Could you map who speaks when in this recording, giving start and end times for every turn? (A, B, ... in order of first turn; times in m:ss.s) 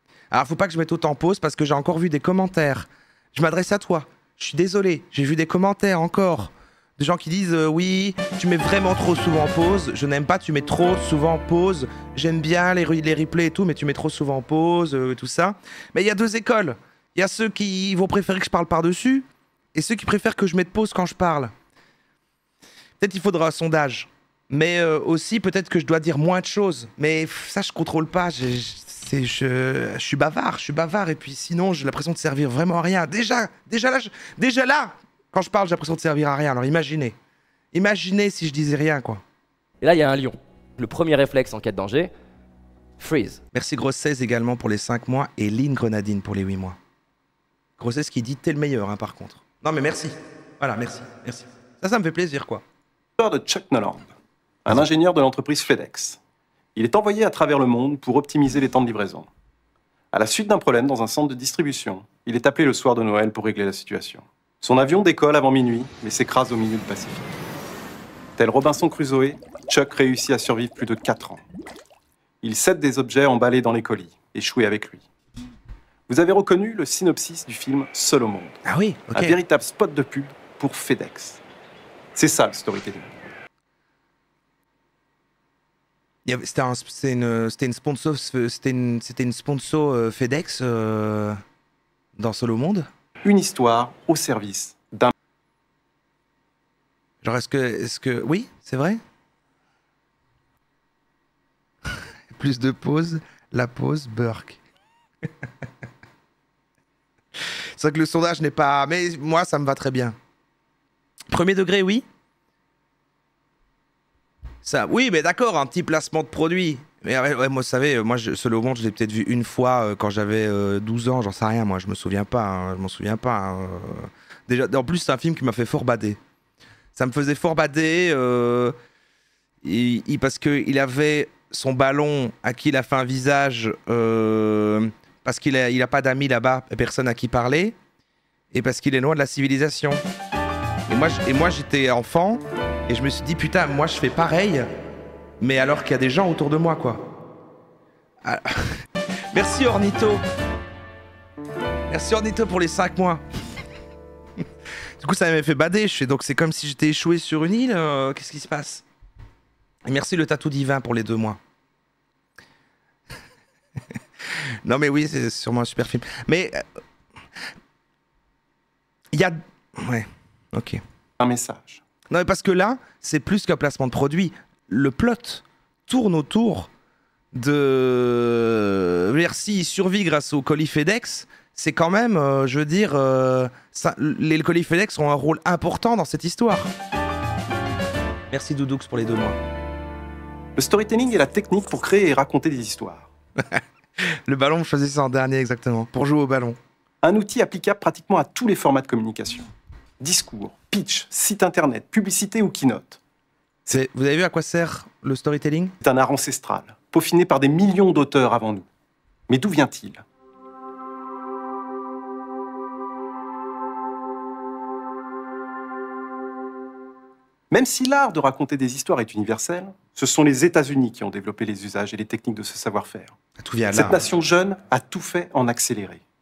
0:00.3-0:21.5 A
0:23.0-0:37.1 A
0:37.7-0:39.2 A
0:39.8-0:42.1 B
0:43.0-0:43.4 B
0:43.5-0:46.8 A
0:47.8-0:52.6 A
0:53.2-0:54.0 C
0:54.6-0:56.2 C
0:56.7-0:59.3 C
1:00.1-1:07.3 C
1:08.4-1:11.4 C
1:12.4-1:15.0 C
1:16.1-1:18.6 C
1:18.6-1:19.4 A
1:19.1-1:21.4 C
1:22.1-1:23.1 C
1:26.2-1:31.4 A
1:32.2-1:32.9 A
1:33.2-1:35.1 C
1:37.2-1:39.0 A
1:42.3-1:44.6 A
1:47.8-1:50.1 A
1:51.3-1:52.0 A
1:54.6-2:06.2 A
2:06.9-2:08.7 A
2:09.6-2:17.7 A
2:18.5-2:20.0 A
2:20.9-2:24.7 A
2:25.4-2:27.0 A
2:28.2-2:28.7 A
2:29.3-2:30.2 A
2:31.9-2:33.2 A
2:35.0-2:38.8 A
2:39.8-2:41.4 A
2:44.6-2:46.6 A
2:49.1-2:50.8 A
2:51.2-2:51.8 C
2:52.1-2:56.7 A
2:57.3-3:06.7 A
3:08.3-3:09.4 A
3:10.6-3:13.1 C
3:13.5-3:16.6 A
3:17.0-3:23.0 C
3:23.7-3:25.7 A
3:25.8-3:28.6 C
3:29.3-3:30.0 C
3:37.5-3:43.1 C
3:43.4-3:44.0 A
3:43.7-3:46.0 C